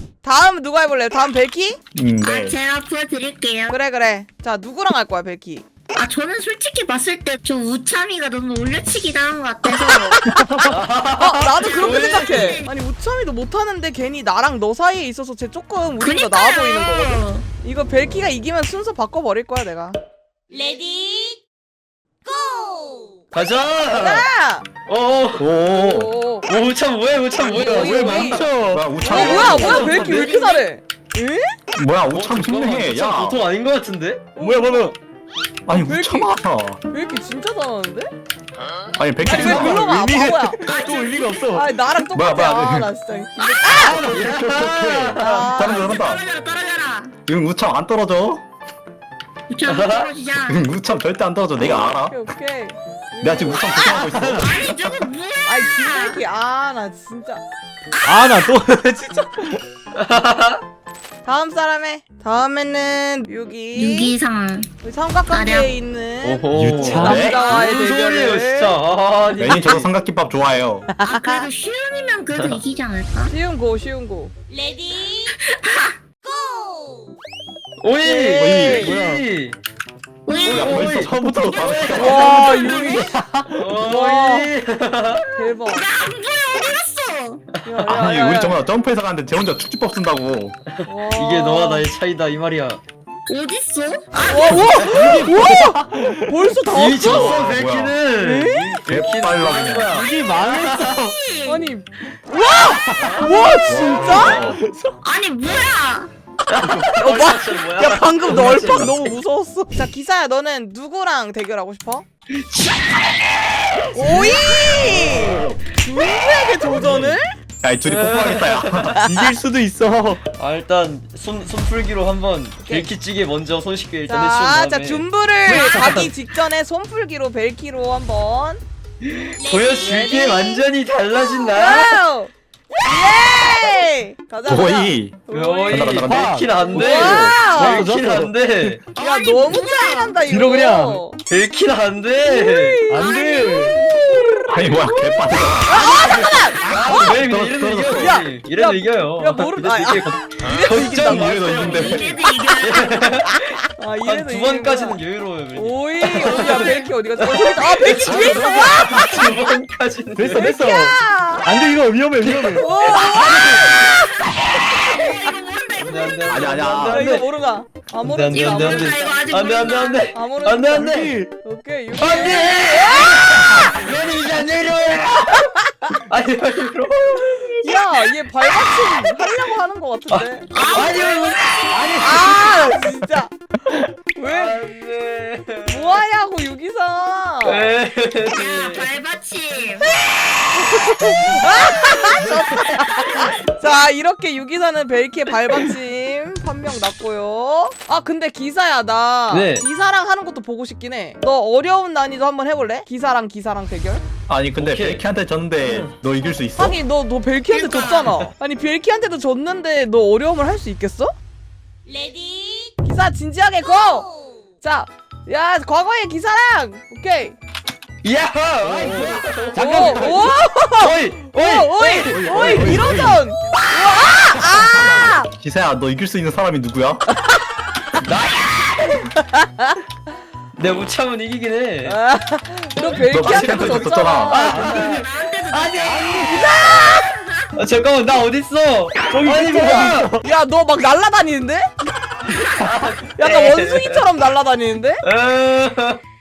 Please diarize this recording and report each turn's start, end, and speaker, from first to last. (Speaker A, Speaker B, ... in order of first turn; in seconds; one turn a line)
Speaker A: 0.2-1.8
Speaker B: 1.9-2.6
Speaker C: 2.2-3.8
Speaker A: 3.7-5.7
Speaker C: 6.0-10.2
Speaker A: 9.8-20.0
Speaker B: 10.3-10.7
Speaker D: 10.7-12.6
Speaker C: 11.6-12.7
Speaker C: 16.0-17.4
Speaker C: 20.5-21.4
Speaker C: 22.4-23.1
Speaker D: 23.3-24.3
Speaker A: 23.9-24.7
Speaker D: 24.9-25.5
Speaker B: 25.4-26.1
Speaker A: 25.7-26.5
Speaker D: 26.5-28.5
Speaker A: 27.4-31.6
Speaker E: 27.6-29.8
Speaker B: 28.7-29.9
Speaker D: 29.0-30.5
Speaker C: 29.8-30.6
Speaker B: 31.8-33.4
Speaker D: 32.1-34.2
Speaker A: 34.4-34.9
Speaker E: 34.4-35.0
Speaker B: 35.7-36.8
Speaker A: 35.7-36.3
Speaker A: 36.9-38.1
Speaker B: 39.0-39.9
Speaker A: 39.2-40.6
Speaker E: 39.3-41.8
Speaker C: 40.6-41.5
Speaker A: 41.5-44.1
Speaker B: 42.1-42.9
Speaker C: 43.4-43.9
Speaker E: 43.8-44.5
Speaker D: 44.0-45.7
Speaker B: 44.0-46.2
Speaker A: 45.2-46.0
Speaker C: 45.7-47.1
Speaker B: 47.3-48.4
Speaker C: 49.5-50.6
Speaker D: 49.7-50.1
Speaker B: 50.5-52.2
Speaker A: 52.1-53.8
Speaker B: 53.2-55.1
Speaker C: 53.6-56.2
Speaker D: 54.1-54.5
Speaker A: 55.5-57.4
Speaker E: 58.0-59.5
Speaker A: 59.1-59.4
Speaker D: 60.0-60.6
Speaker A: 61.2-64.1
Speaker C: 63.7-64.7
Speaker A: 64.8-68.8
Speaker C: 65.3-65.7
Speaker D: 66.2-69.9
Speaker E: 66.5-67.4
Speaker B: 67.0-67.4
Speaker B: 69.3-70.9
Speaker C: 71.0-73.3
Speaker D: 72.3-72.6
Speaker A: 73.3-74.3
Speaker C: 74.5-77.0
Speaker D: 77.8-79.6
Speaker A: 78.0-79.0
Speaker E: 78.3-79.2
Speaker C: 80.3-81.0
Speaker D: 80.5-82.5
Speaker B: 80.5-82.5
Speaker E: 81.1-81.5
Speaker A: 81.9-83.2
Speaker E: 82.2-83.6
Speaker D: 83.6-85.3
Speaker A: 83.8-84.5
Speaker A: 85.3-85.9
Speaker C: 85.7-87.4
Speaker A: 87.7-88.6
Speaker B: 87.8-90.6
Speaker D: 90.8-92.8
Speaker A: 90.9-91.9
Speaker C: 93.3-95.0
Speaker A: 94.2-97.4
Speaker D: 94.7-95.3
Speaker E: 94.9-96.3
Speaker D: 96.7-100.9
Speaker B: 97.0-98.0
Speaker A: 98.2-98.8
Speaker B: 98.9-99.9
Speaker E: 99.9-101.2
Speaker C: 100.7-101.7
Speaker A: 101.5-104.3
Speaker E: 102.9-103.2
Speaker D: 103.0-104.6
Speaker B: 103.7-104.6
Speaker E: 104.5-105.0
Speaker C: 105.0-106.1
Speaker D: 106.5-109.2
Speaker A: 106.9-112.0
Speaker D: 112.3-115.5
Speaker A: 113.9-117.3
Speaker B: 116.7-119.0
Speaker D: 117.8-119.0
Speaker E: 119.0-120.2
Speaker D: 120.3-126.1
Speaker A: 122.6-122.9
Speaker A: 124.1-128.6
Speaker D: 129.0-132.0
Speaker A: 129.8-130.6
Speaker A: 131.5-132.3
Speaker A: 132.8-136.1
Speaker B: 134.4-137.4
Speaker D: 135.3-138.9
Speaker E: 136.1-138.8
Speaker A: 136.6-137.8
Speaker C: 138.9-140.2
Speaker A: 139.0-141.2
Speaker E: 140.3-141.0
Speaker D: 141.3-142.9
Speaker A: 142.2-144.5
Speaker E: 142.9-143.9
Speaker C: 143.0-144.3
Speaker B: 144.5-146.2
Speaker A: 145.7-146.6
Speaker D: 146.6-160.6
Speaker B: 146.9-148.2
Speaker A: 147.9-151.8
Speaker B: 150.7-152.2
Speaker C: 151.6-153.0
Speaker A: 153.8-155.0
Speaker A: 155.5-159.3
Speaker E: 158.0-159.2
Speaker E: 160.2-162.7
Speaker A: 160.3-161.5
Speaker D: 162.2-163.6
Speaker A: 162.6-165.2
Speaker C: 163.1-166.5
Speaker E: 163.3-163.6
Speaker D: 165.8-167.2
Speaker B: 166.3-167.1
Speaker A: 166.9-169.2
Speaker D: 168.0-171.1
Speaker C: 168.3-170.0
Speaker A: 170.1-173.8
Speaker E: 170.7-171.3
Speaker D: 171.9-175.5
Speaker A: 175.5-176.0
Speaker D: 176.1-179.0
Speaker A: 177.6-180.9
Speaker D: 180.1-182.7
Speaker C: 180.5-182.0
Speaker A: 182.0-183.3
Speaker D: 183.7-186.0
Speaker A: 184.2-184.6
Speaker A: 185.7-187.7
Speaker D: 187.4-188.9
Speaker C: 188.3-189.9
Speaker A: 190.1-204.0
Speaker C: 191.3-193.3
Speaker D: 192.2-192.6
Speaker D: 199.3-199.7
Speaker B: 204.3-206.8
Speaker D: 204.6-205.1
Speaker D: 205.6-205.9
Speaker A: 206.6-211.1
Speaker C: 207.5-208.1
Speaker C: 211.9-212.7
Speaker A: 212.8-214.1
Speaker A: 214.6-217.4
Speaker D: 218.0-220.3
Speaker E: 218.6-220.4
Speaker A: 219.6-225.3
Speaker D: 220.8-222.9
Speaker B: 222.1-223.2
Speaker E: 222.2-222.7
Speaker B: 224.4-227.1
Speaker A: 227.1-228.0
Speaker D: 228.0-229.0
Speaker A: 228.9-229.8
Speaker D: 230.6-232.0
Speaker A: 231.9-234.9
Speaker B: 233.1-234.4
Speaker C: 233.3-233.8
Speaker D: 234.3-235.1
Speaker C: 234.4-237.5
Speaker E: 234.5-235.1
Speaker A: 235.5-237.1
Speaker E: 235.8-236.4
Speaker D: 237.6-240.1
Speaker E: 239.2-240.2
Speaker A: 239.3-241.7
Speaker D: 242.3-244.0
Speaker A: 243.2-245.0
Speaker D: 245.0-246.0